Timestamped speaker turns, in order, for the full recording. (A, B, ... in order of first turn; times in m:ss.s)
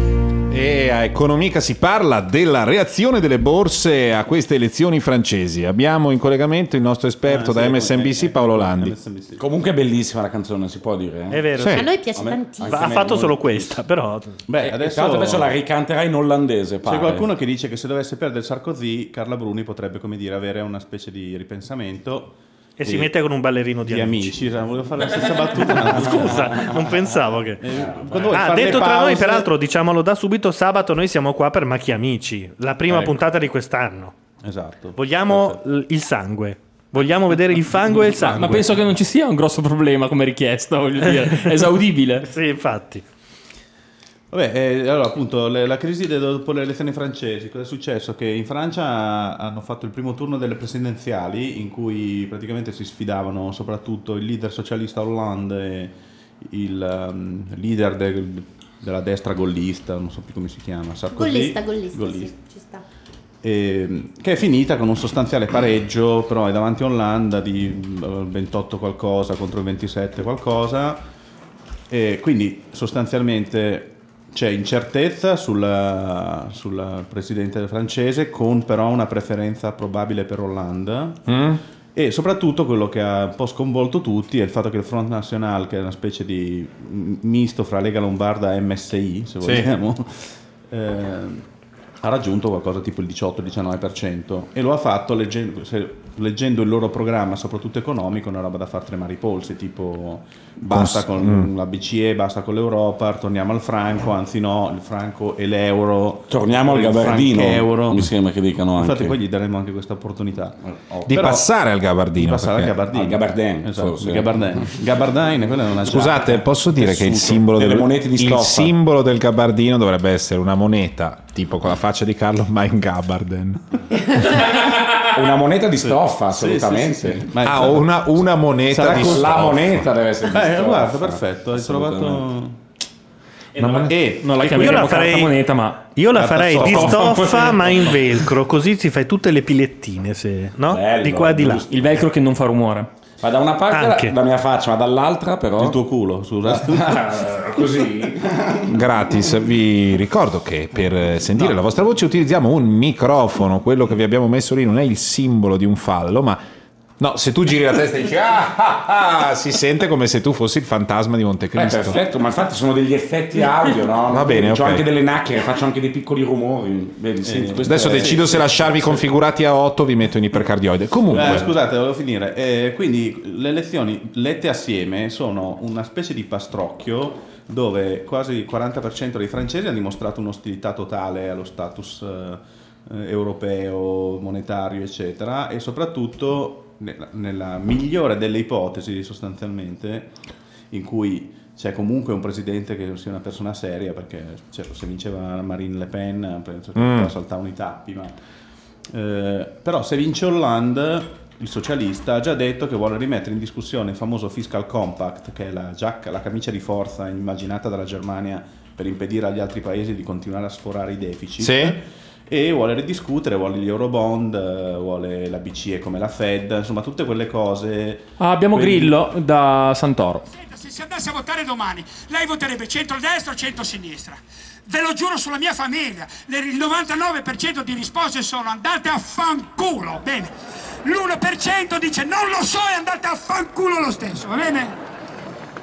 0:00.5-0:09.0 A
0:07.2-0:09.4 B
0:09.4-0:13.8 C
0:11.3-0:11.9 D
0:11.6-0:11.9 A
0:11.7-0:12.9 E
0:12.6-0:14.4 D
0:14.5-0:15.6 B
0:14.6-0:17.3 C
0:16.8-0:23.1 B
0:22.8-0:24.4 D
0:23.8-0:26.7 B
0:25.9-0:27.6 D
0:27.6-0:29.5 B
0:27.8-0:28.4 C
0:28.3-0:34.1 D
0:32.9-0:33.2 B
0:34.4-0:35.6 B
0:34.9-0:38.6 D
0:38.2-0:42.2 F
0:38.2-0:38.6 B
0:42.2-0:43.0 D
0:44.3-1:02.3 B
1:01.1-1:02.8 E
1:03.4-1:11.0 B
1:11.9-1:21.3 B
1:21.3-1:21.6 A
1:21.9-1:31.4 B
1:29.4-1:29.7 A
1:32.0-1:48.1 B
1:40.7-1:41.5 A
1:46.3-1:49.2 C
1:48.8-1:51.5 B
1:50.6-1:51.3 C
1:51.1-1:52.8 A
1:52.1-1:57.7 B
1:52.9-1:54.6 C
1:55.8-2:03.6 A
1:57.5-1:58.8 C
2:05.0-2:07.3 C
2:06.3-2:08.0 B
2:07.4-2:09.9 A
2:08.7-2:09.4 B
2:08.9-2:12.2 C
2:10.2-2:12.6 B
2:13.6-2:15.8 F
2:13.6-2:13.9 A
2:13.6-2:15.3 B
2:14.6-2:15.3 D
2:16.0-2:21.6 D
2:16.1-2:17.5 B
2:16.5-2:18.0 F
2:20.7-2:22.0 C
2:21.7-2:22.9 F
2:23.2-2:25.8 C
2:23.7-2:24.1 D
2:25.6-2:27.0 B
2:26.4-2:28.7 C
2:28.7-2:36.4 A
2:37.0-2:42.0 A
2:41.5-2:49.0 C
2:44.1-2:44.9 A
2:47.2-2:48.4 B
2:47.6-2:51.5 A
2:51.1-3:10.1 B
3:10.7-3:18.2 B
3:16.7-3:17.1 A
3:18.9-3:39.0 B
3:31.4-3:31.8 A
3:38.2-3:40.2 F
3:40.4-3:54.8 G